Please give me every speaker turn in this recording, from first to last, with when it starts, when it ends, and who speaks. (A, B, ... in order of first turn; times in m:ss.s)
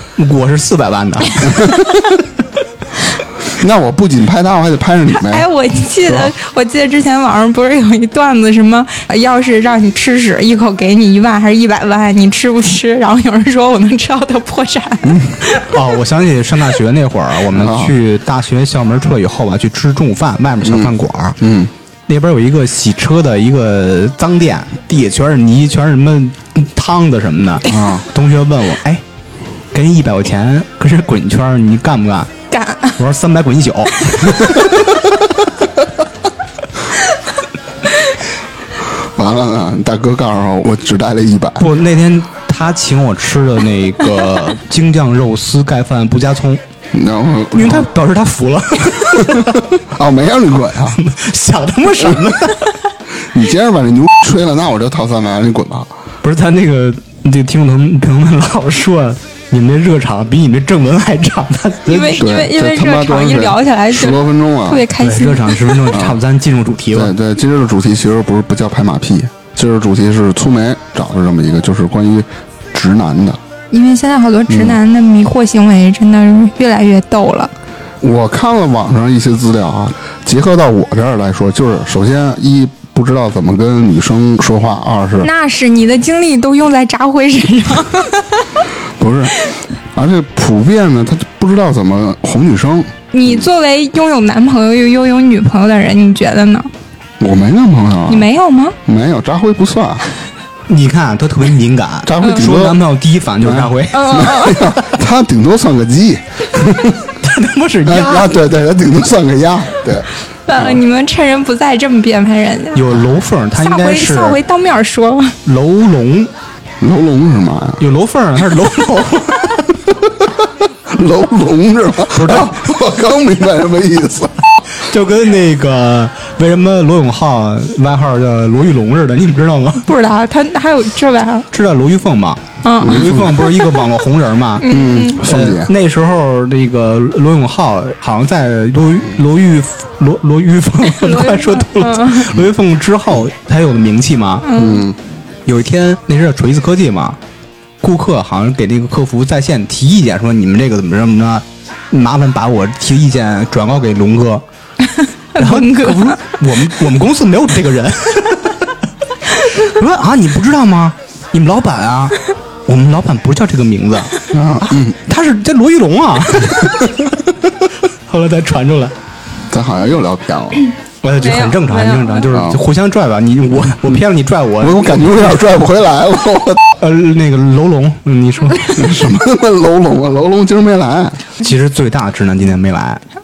0:00.2-0:01.8 A
0:01.6-0:02.0 B
0:03.5-0:05.5 B
0:05.2-0:15.6 C
0:15.0-0:15.4 B
0:15.7-0:21.4 A
0:17.5-0:17.9 B
0:20.6-0:21.7 B
0:22.1-0:29.0 A
0:27.7-0:28.1 B
0:29.7-0:32.3 A
0:32.5-0:33.0 C
0:33.0-0:34.9 A
0:39.0-0:41.6 B
0:41.6-0:46.6 A
0:46.9-0:47.9 B
0:47.5-0:49.7 A
0:49.2-0:51.0 B
0:50.9-0:52.8 A
0:53.2-0:55.9 B
0:56.2-1:02.2 A
1:01.9-1:05.8 C
1:02.2-1:04.9 B
1:05.0-1:07.1 A
1:05.9-1:06.2 B
1:06.9-1:13.4 B
1:13.7-1:17.5 C
1:14.5-1:14.8 B
1:18.0-1:25.3 B
1:25.2-1:28.6 C
1:29.0-1:29.4 B
1:29.9-1:33.4 B
1:33.1-1:36.7 C
1:37.2-1:38.3 B
1:38.1-1:38.8 C
1:38.8-1:40.0 B
1:40.7-1:44.2 A
1:42.0-1:42.8 B
1:43.4-1:47.1 B
1:43.9-1:44.7 C
1:47.2-1:48.3 A
1:47.9-1:50.8 B
1:50.5-1:53.0 C
1:52.7-1:54.4 A
1:53.6-1:55.4 C
1:55.4-1:56.3 A
1:56.8-1:57.8 B
1:57.8-1:59.8 A
2:00.9-2:04.3 B
2:02.1-2:02.6 A
2:04.8-2:09.9 A
2:09.8-2:11.5 C
2:11.5-2:24.5 A
2:12.6-2:13.1 C
2:12.8-2:13.4 B
2:14.6-2:15.2 C
2:14.6-2:15.7 B
2:20.9-2:22.3 C
2:24.4-2:24.8 C
2:24.5-2:25.0 B
2:25.4-2:27.2 A
2:27.8-2:34.4 A
2:35.3-2:36.2 C
2:35.4-2:38.7 A
2:39.4-2:47.3 A
2:44.3-2:45.0 B
2:48.1-2:48.9 A
2:49.5-2:50.6 B
2:51.0-2:55.5 A
2:51.2-2:52.3 C
2:52.3-2:52.6 B
2:54.6-2:56.6 B
2:56.8-2:58.9 A
2:58.8-3:01.2 B
3:01.4-3:03.0 A